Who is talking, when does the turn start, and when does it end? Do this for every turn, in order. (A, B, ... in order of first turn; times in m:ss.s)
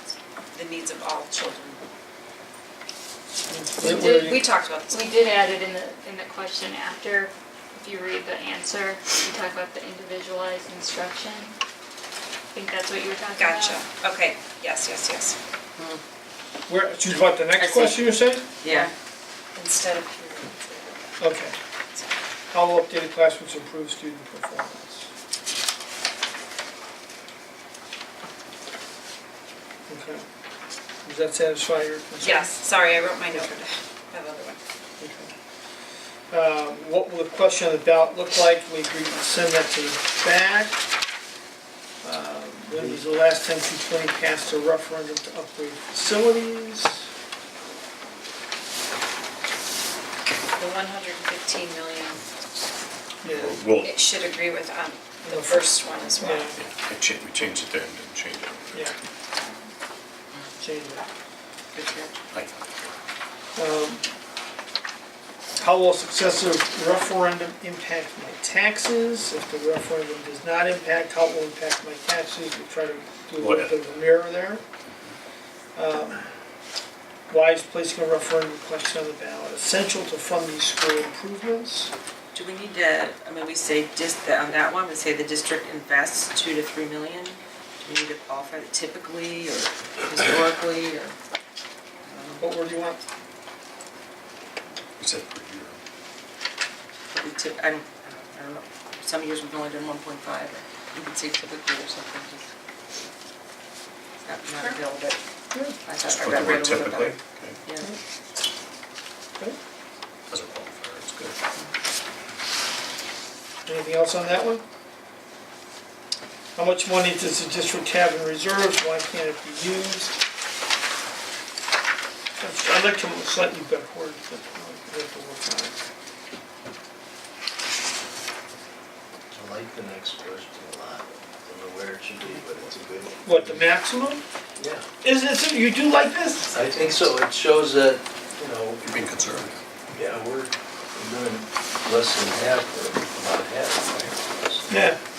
0:00.5-0:01.8 A
0:03.5-0:04.4 B
0:03.8-0:11.5 C
0:03.9-0:05.2 A
0:12.5-0:13.8 C
0:13.3-0:15.4 A
0:16.7-0:18.5 B
0:17.6-0:18.9 D
0:19.5-0:22.0 A
0:21.2-0:21.6 B
0:22.5-0:25.1 B
0:29.9-0:30.2 B
0:31.0-0:33.6 B
0:32.2-0:34.6 A
0:35.0-0:35.3 B
0:36.3-0:40.8 B
0:42.0-0:47.0 B
0:50.6-0:52.2 A
0:53.2-0:53.6 B
0:53.2-0:54.0 E
0:53.8-0:56.5 A
0:55.2-0:56.5 B
0:56.6-0:58.9 E
1:00.6-1:01.0 B
1:01.7-1:02.1 D
1:02.3-1:02.6 E
1:03.6-1:04.0 B
1:05.6-1:14.6 B
1:13.4-1:14.0 E
1:15.7-1:16.2 B
1:17.3-1:21.9 B
1:22.3-1:31.1 D
1:32.0-1:32.6 D
1:32.4-1:33.0 B
1:35.0-1:35.8 E
1:37.1-1:42.5 D
1:44.2-1:45.2 D
1:45.8-1:47.9 D
1:46.1-1:47.6 E
1:50.3-1:51.3 E
1:53.6-1:54.6 B
1:56.6-2:00.2 B
2:02.4-2:05.7 B
2:09.3-2:13.7 F
2:13.2-2:14.2 B
2:14.6-2:14.9 F
2:15.0-2:16.6 B
2:16.5-2:19.1 F
2:18.8-2:19.6 E
2:19.9-2:24.9 F
2:24.7-2:25.0 B